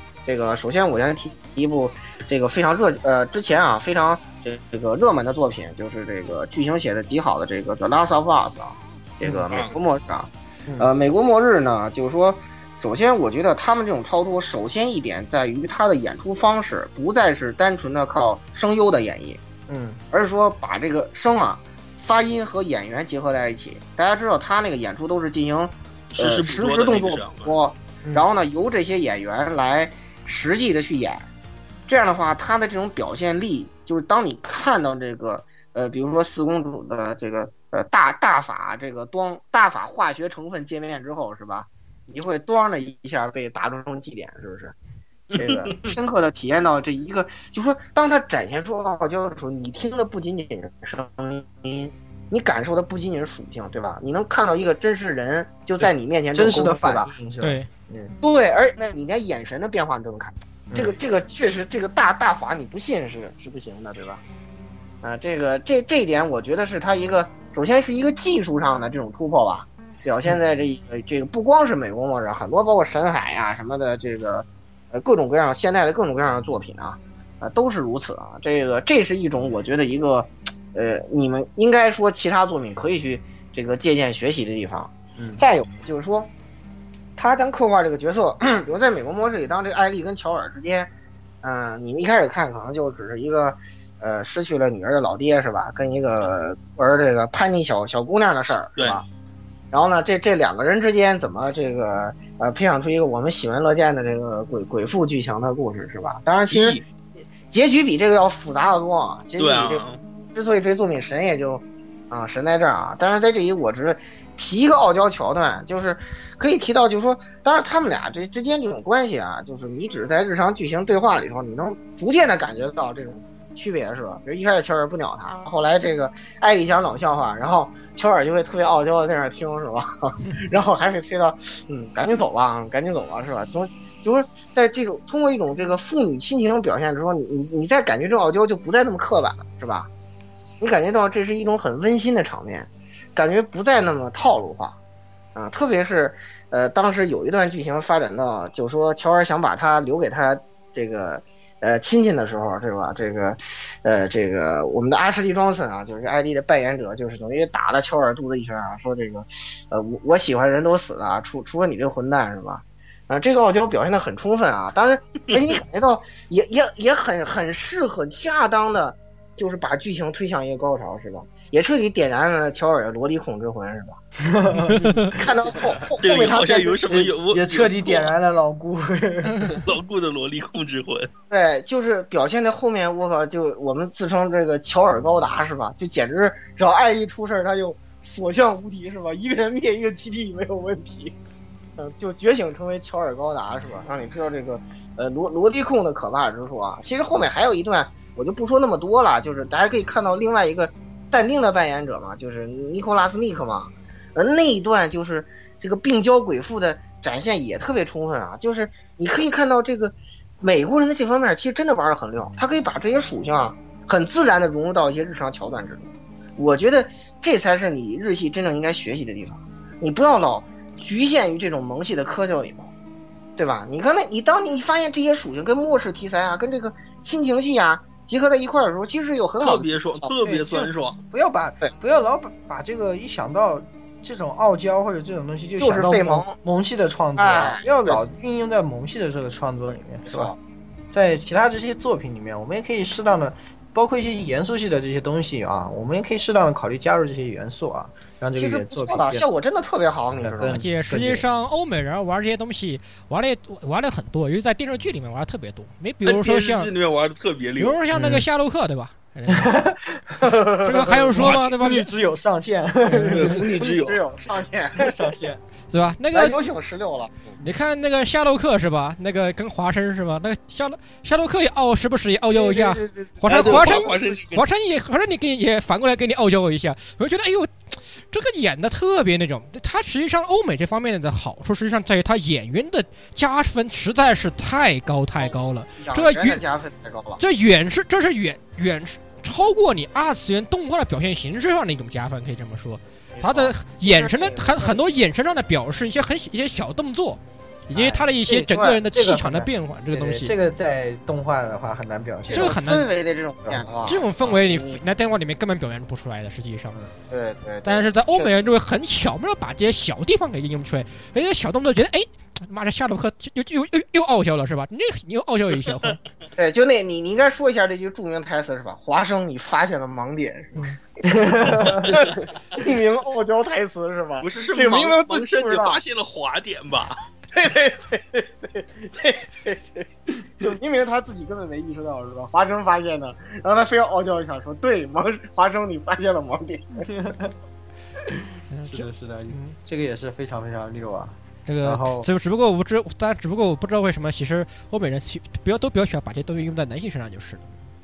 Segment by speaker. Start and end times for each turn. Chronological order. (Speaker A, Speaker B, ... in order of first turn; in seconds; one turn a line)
Speaker A: 0.2-19.4
Speaker B: 9.2-9.5
Speaker B: 10.7-10.9
Speaker B: 19.7-20.0
Speaker A: 20.1-31.3
Speaker C: 26.1-27.5
Speaker A: 31.9-44.7
Speaker C: 45.3-45.8
Speaker A: 45.4-57.1
Speaker B: 55.8-58.1
Speaker D: 57.4-57.7
Speaker A: 58.2-64.2
Speaker B: 60.7-61.0
Speaker A: 65.0-86.3
Speaker B: 85.2-85.4
Speaker A: 87.2-90.9
Speaker A: 91.4-99.0
Speaker A: 99.7-106.8
Speaker C: 106.5-106.8
Speaker A: 107.5-109.8
Speaker C: 109.4-110.0
Speaker A: 110.3-139.9
Speaker A: 140.6-144.8
Speaker A: 145.3-174.0
Speaker B: 174.2-175.3
Speaker D: 174.7-175.1
Speaker A: 175.1-176.6
Speaker C: 176.0-178.1
Speaker B: 176.0-179.6
Speaker C: 179.6-181.1
Speaker A: 181.3-191.1
Speaker A: 191.8-222.7
Speaker A: 223.4-230.1
Speaker C: 229.4-231.0
Speaker B: 230.2-240.3
Speaker A: 235.6-236.4
Speaker A: 237.2-238.0
Speaker A: 240.1-240.4
Speaker B: 240.9-249.2
Speaker A: 248.3-250.6
Speaker B: 250.2-251.2
Speaker D: 250.5-256.7
Speaker C: 256.0-257.8
Speaker D: 257.6-259.6
Speaker B: 257.9-258.2
Speaker B: 259.3-263.4
Speaker A: 260.2-261.1
Speaker D: 260.6-261.9
Speaker D: 262.9-263.3
Speaker C: 263.1-264.0
Speaker A: 263.5-265.1
Speaker B: 264.8-265.4
Speaker D: 265.7-266.4
Speaker A: 266.1-267.3
Speaker D: 267.4-286.4
Speaker A: 272.3-273.9
Speaker C: 273.3-274.4
Speaker A: 285.1-287.2
Speaker D: 287.2-300.3
Speaker A: 293.1-294.8
Speaker B: 297.7-302.6
Speaker A: 298.4-298.8
Speaker A: 302.3-304.8
Speaker D: 302.3-302.9
Speaker B: 303.4-304.0
Speaker D: 303.9-306.8
Speaker A: 307.1-308.3
Speaker D: 307.6-316.0
Speaker A: 316.4-325.8
Speaker B: 321.1-322.0
Speaker C: 324.2-326.9
Speaker A: 327.3-329.9
Speaker A: 330.4-336.9
Speaker B: 336.8-337.3
Speaker D: 338.5-339.6
Speaker B: 338.6-342.1
Speaker D: 341.4-347.6